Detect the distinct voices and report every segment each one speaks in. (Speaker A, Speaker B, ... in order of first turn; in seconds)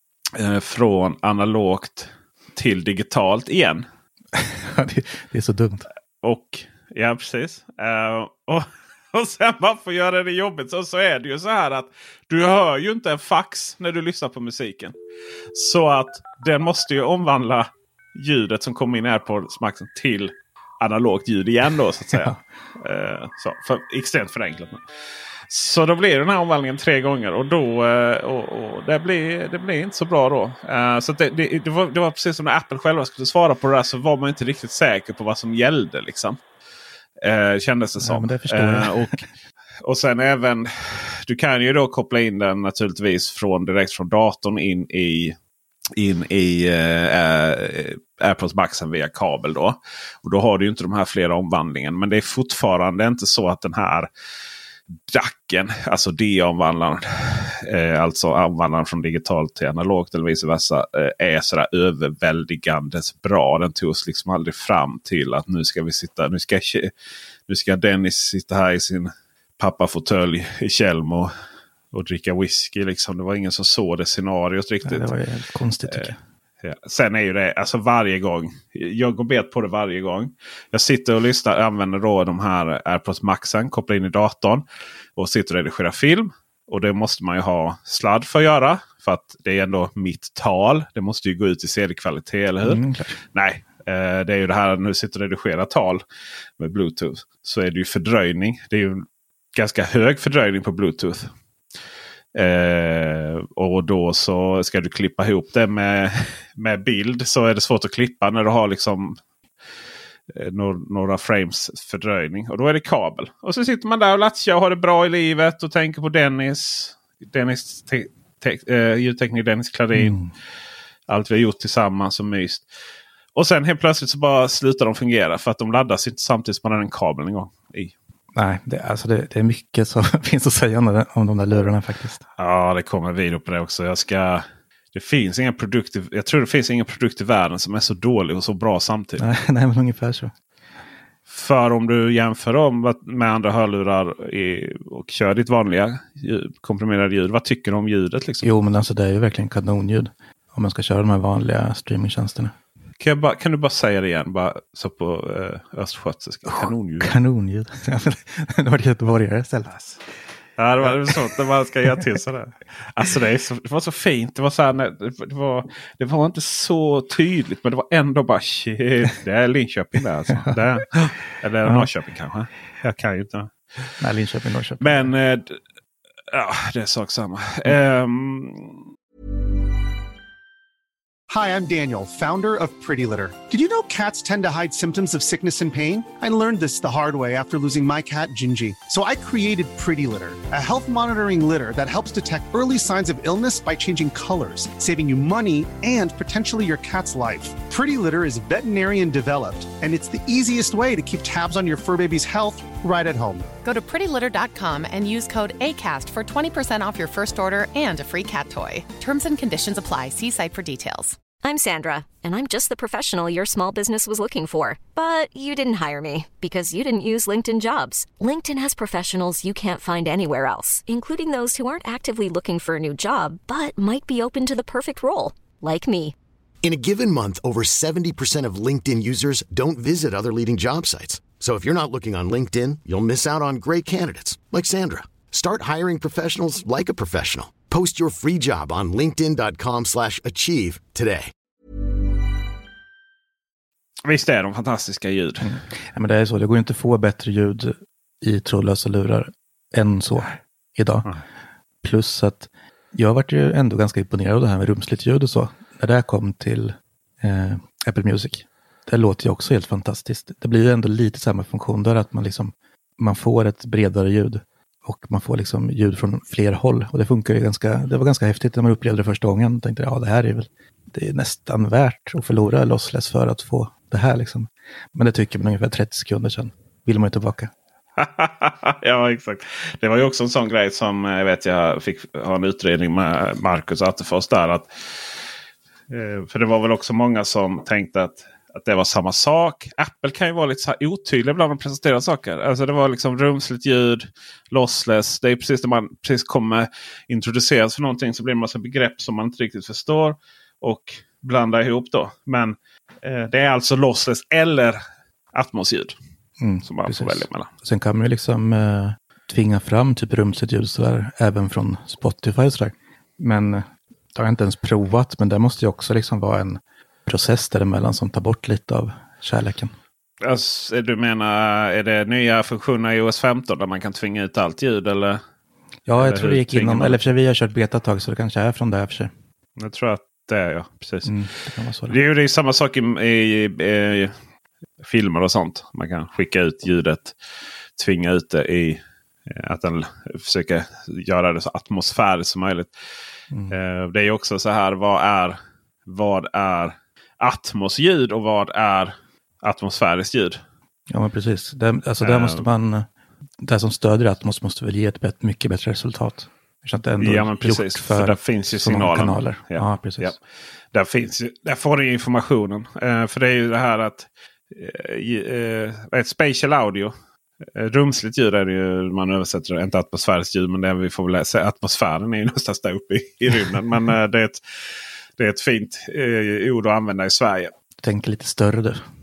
Speaker A: 0.3-3.9, 6.2-14.9, 15.5-24.8, 25.5-36.4, 37.2-39.2, 39.8-45.4, 45.9-54.1, 55.1-66.9, 67.5-71.3, 71.9-75.1, 76.6-84.6, 85.2-92.8, 93.3-96.0, 96.6-101.3, 102.3-109.2, 110.3-120.2, 121.1-122.7, 123.3-127.9, 132.4-139.3, 141.3-148.5, 153.0-157.1, 159.7-160.0, 160.6-174.0, 174.8-175.6, 176.3-178.9, 244.0-245.6, 278.0-285.1, 285.9-304.8, 305.3-305.9, 306.6-307.5, 320.2-325.2, 326.0-327.1, 329.6-331.2, 331.9-334.1, 334.8-337.1, 337.8-342.7, 343.5-350.4, 352.0-352.4, 357.0-360.2, 360.7-374.4, 375.2-377.5
Speaker B: 4.3-5.9, 38.0-39.1, 74.8-76.2, 92.6-93.2, 119.9-120.3, 128.3-132.2, 139.2-140.3, 148.4-152.5, 156.5-159.7, 160.9-161.1, 174.0-175.1, 245.4-251.1, 251.8-277.5, 306.4-319.7, 325.9-329.1, 331.0-332.0, 350.9-352.9, 353.4-360.1, 377.8-378.8
Speaker C: 181.3-203.5
Speaker D: 203.6-211.2
Speaker E: 211.4-226.1
Speaker F: 226.6-241.3